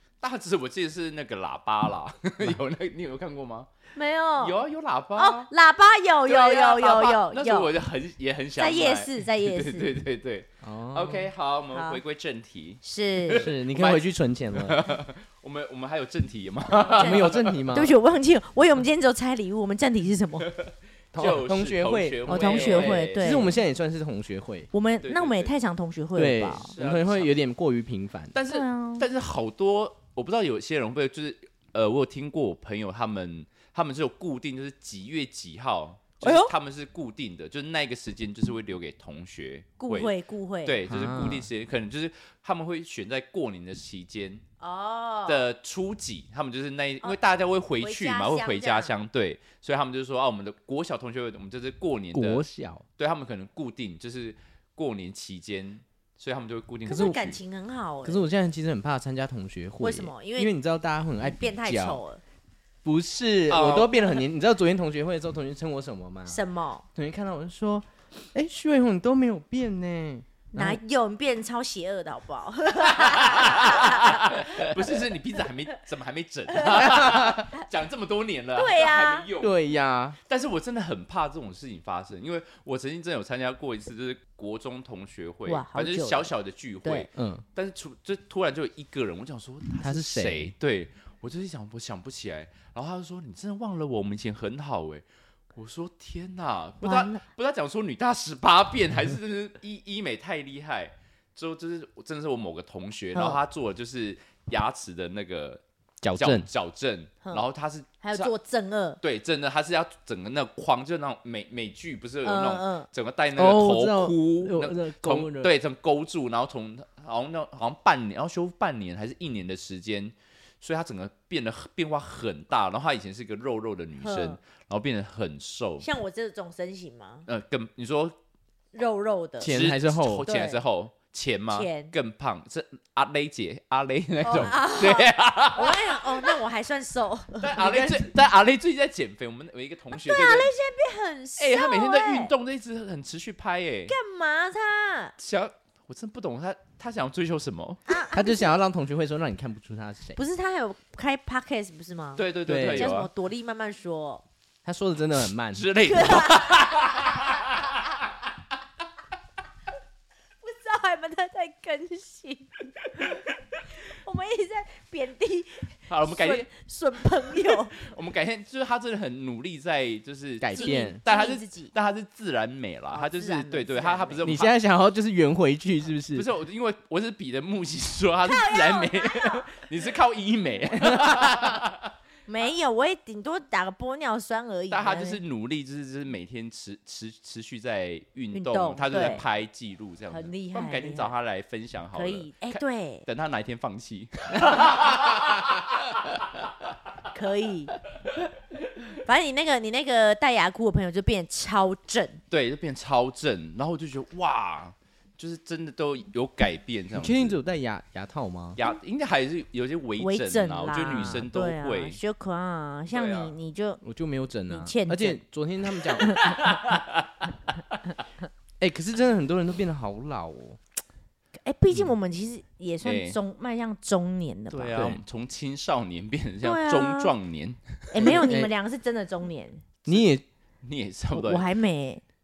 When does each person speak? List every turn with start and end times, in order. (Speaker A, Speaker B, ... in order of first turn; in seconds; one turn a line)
Speaker A: 0.2-3.7
Speaker B: 3.9-4.6
Speaker A: 4.4-5.5
Speaker B: 5.2-7.7
Speaker A: 6.3-17.6
Speaker B: 8.6-9.9
Speaker C: 10.6-11.3
Speaker B: 11.7-12.0
Speaker B: 12.8-13.5
Speaker C: 13.4-14.9
Speaker B: 16.8-20.5
Speaker C: 17.0-17.9
Speaker A: 20.6-23.5
Speaker C: 21.1-24.7
Speaker B: 22.3-23.6
Speaker B: 24.7-26.7
Speaker A: 25.0-25.5
Speaker C: 26.1-28.3
Speaker A: 26.5-27.3
Speaker A: 28.3-40.1
Speaker B: 28.5-29.0
Speaker B: 36.2-36.5
Speaker B: 39.8-40.8
Speaker A: 40.6-44.4
Speaker C: 40.9-41.5
Speaker B: 44.6-45.5
Speaker A: 45.3-52.4
Speaker B: 47.8-48.9
Speaker C: 52.1-52.8
Speaker A: 53.0-57.4
Speaker B: 56.9-58.2
Speaker C: 56.9-57.2
Speaker C: 58.0-62.0
Speaker B: 59.8-60.5
Speaker B: 61.2-62.2
Speaker C: 62.8-66.4
Speaker A: 63.5-64.2
Speaker B: 66.3-66.8
Speaker C: 66.9-70.8
Speaker B: 70.5-75.0
Speaker A: 72.9-79.5
Speaker B: 76.5-77.1
Speaker C: 76.7-77.4
Speaker B: 78.5-79.3
Speaker C: 79.4-80.2
Speaker A: 80.3-108.3
Speaker B: 85.5-86.3
Speaker C: 87.1-87.4
Speaker C: 89.8-90.5
Speaker B: 96.8-97.2
Speaker B: 103.1-103.4
Speaker C: 106.0-106.5
Speaker B: 108.0-109.0
Speaker A: 109.0-125.8
Speaker B: 112.2-112.9
Speaker C: 113.3-115.5
Speaker B: 124.0-124.4
Speaker B: 125.8-127.3
Speaker A: 127.3-128.1
Speaker B: 128.7-129.5
Speaker C: 129.4-130.2
Speaker A: 129.4-136.2
Speaker B: 130.2-130.6
Speaker B: 131.5-131.9
Speaker B: 134.2-137.6
Speaker A: 137.4-140.5
Speaker C: 137.6-138.1
Speaker B: 139.9-142.3
Speaker A: 141.4-143.9
Speaker B: 143.9-145.1
Speaker A: 145.2-147.8
Speaker B: 147.9-148.4
Speaker C: 148.1-150.2
Speaker B: 150.2-154.2
Speaker A: 152.2-153.1
Speaker C: 152.4-152.9
Speaker C: 154.6-155.7
Speaker A: 155.5-157.8
Speaker B: 155.8-157.2
Speaker B: 160.4-163.2
Speaker B: 163.7-167.8
Speaker A: 165.9-166.5
Speaker A: 167.4-174.5
Speaker C: 170.4-171.0
Speaker B: 170.5-171.7
Speaker B: 172.9-174.3
Speaker C: 174.2-176.3
Speaker A: 176.1-181.9
Speaker B: 178.2-179.5
Speaker C: 180.8-181.2
Speaker B: 182.3-185.2
Speaker A: 184.7-196.2
Speaker B: 188.3-189.2
Speaker B: 190.1-191.1
Speaker B: 191.9-193.0
Speaker B: 197.1-197.8
Speaker B: 199.0-202.2
Speaker A: 202.3-207.3
Speaker C: 206.9-208.6
Speaker A: 208.6-212.0
Speaker B: 210.0-213.8
Speaker A: 212.9-213.3
Speaker C: 213.8-216.4
Speaker B: 214.5-215.2
Speaker B: 216.0-216.4
Speaker A: 216.2-217.1
Speaker C: 218.6-220.6
Speaker B: 221.4-224.9
Speaker A: 222.8-223.2
Speaker A: 224.5-228.2
Speaker C: 224.7-225.0
Speaker B: 226.4-227.1
Speaker B: 227.9-229.6
Speaker C: 228.0-228.5
Speaker C: 229.8-230.2
Speaker A: 230.6-231.4
Speaker B: 231.1-232.0